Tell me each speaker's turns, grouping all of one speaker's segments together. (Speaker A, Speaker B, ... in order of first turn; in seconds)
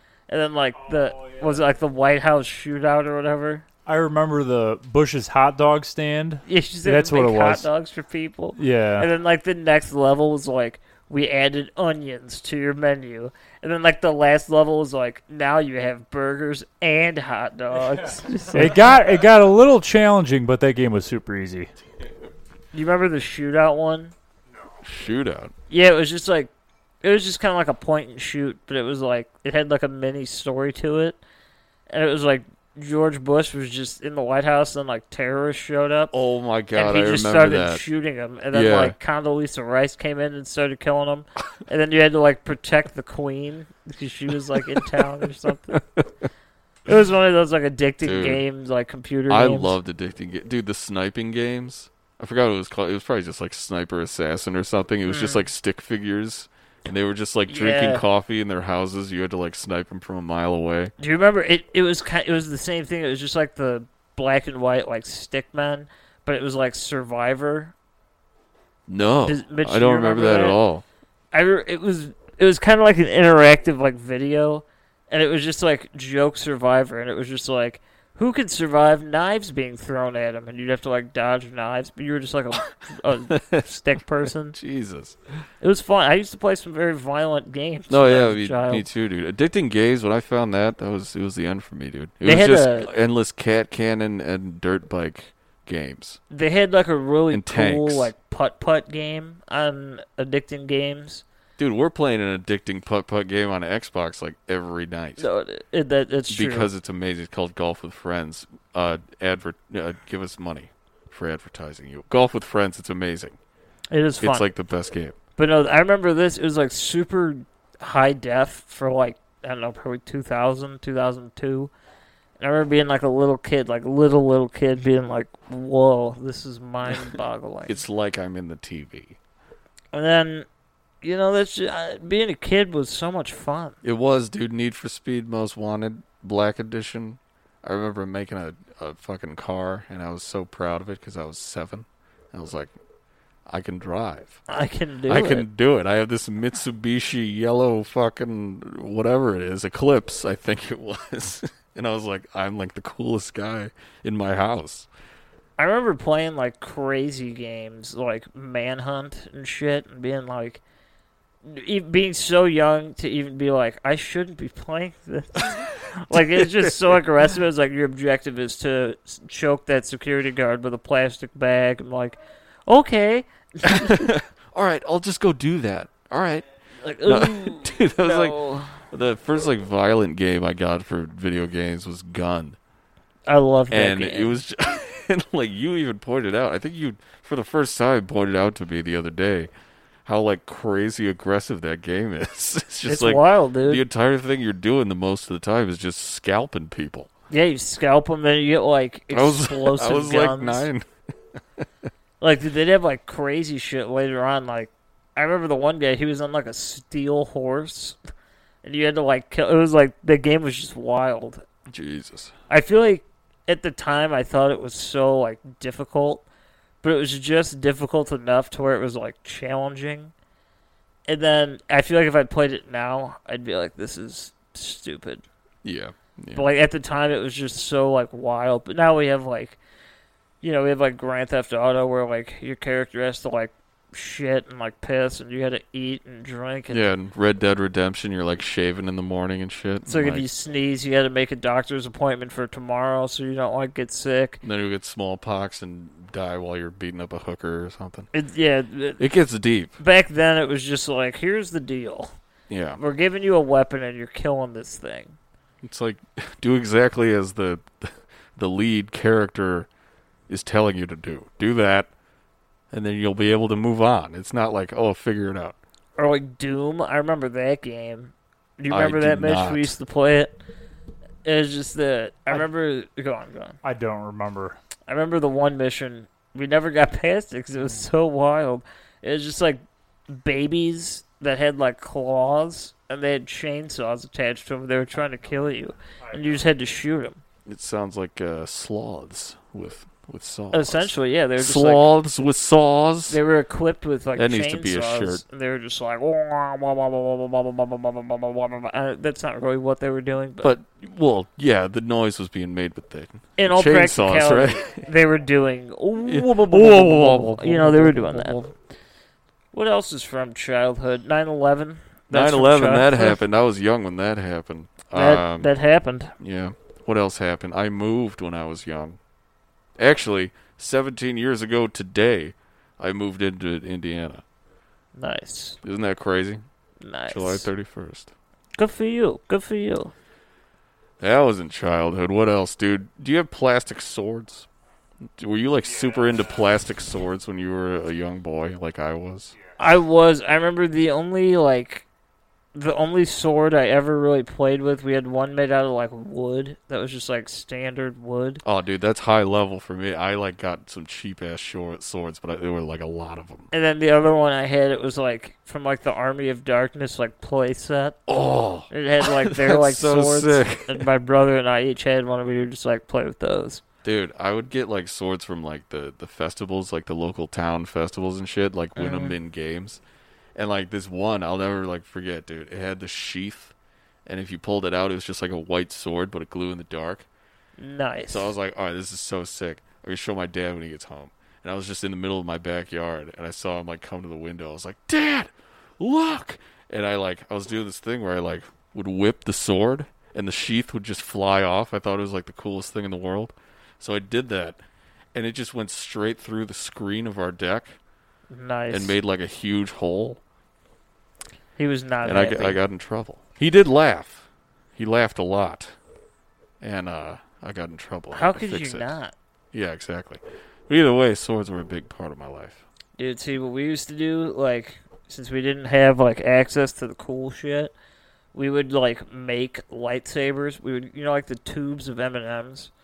Speaker A: 0.3-3.6, 6.5-18.8, 22.7-24.1, 25.7-26.5, 27.0-31.2, 31.9-36.1, 36.7-45.8, 46.9-49.8, 55.1-55.5, 57.5-58.0, 61.0-67.7, 69.2-70.6, 71.3-84.6, 85.6-88.9, 92.2-92.9, 96.3-101.2, 105.2-106.7, 113.9-114.5, 115.4-121.7, 122.4-127.8, 129.9-130.5, 131.0-133.8, 144.5-145.5, 155.6-160.6, 161.4-174.1, 176.8-178.8, 183.3-184.3, 192.9-193.8, 197.3-200.7, 202.2-208.0, 208.6-211.4, 212.5-216.2, 216.8-220.1, 221.1-225.2, 226.3-229.6, 230.4-236.9, 239.9-244.4, 248.1-249.0, 249.8-252.1, 252.8-255.2, 266.0-270.4, 271.2-273.6, 274.9-287.2, 290.5-291.9, 293.1-300.6, 303.4-308.5, 309.5-313.2, 314.9-316.1, 325.0-325.6, 326.8-327.5, 328.6-329.9, 339.6-341.9, 342.5-348.4, 353.5-358.0, 358.7-363.6, 368.8-369.1, 377.6-378.3, 398.3-399.0, 401.6-402.6, 408.1-409.1, 413.0-417.7, 418.3-422.7
Speaker B: 3.9-7.7, 8.6-9.1, 18.5-21.7, 273.6-274.6
Speaker C: 24.8-25.5, 36.1-37.9, 38.5-39.0, 45.7-46.0, 48.0-48.4, 49.3-60.9, 68.9-70.8, 83.3-83.7, 84.5-85.2, 87.9-96.2, 97.3-98.1, 101.6-105.2, 106.3-113.4, 114.2-115.2, 127.7-129.2, 133.8-142.7, 143.5-144.4, 145.1-154.9, 166.0-166.7, 173.6-176.5, 177.1-182.6, 183.7-189.5, 190.1-197.1, 199.1-200.8, 211.7-212.3, 225.6-226.5, 236.7-240.3, 244.4-248.1, 249.0-249.8, 252.5-252.8, 255.6-259.7, 260.3-261.9, 262.7-265.6, 268.7-269.7, 287.5-293.2, 294.2-295.2, 300.4-304.9, 306.1-308.4, 312.1-315.5, 316.2-319.0, 319.8-324.2, 325.6-326.4, 327.1-328.1, 331.0-334.5, 335.2-339.4, 348.4-353.5, 358.1-360.9, 363.8-369.8, 370.4-373.5, 374.1-377.1, 378.1-394.6, 395.1-397.8, 398.7-400.2, 402.0-405.7, 406.6-408.9, 409.5-412.6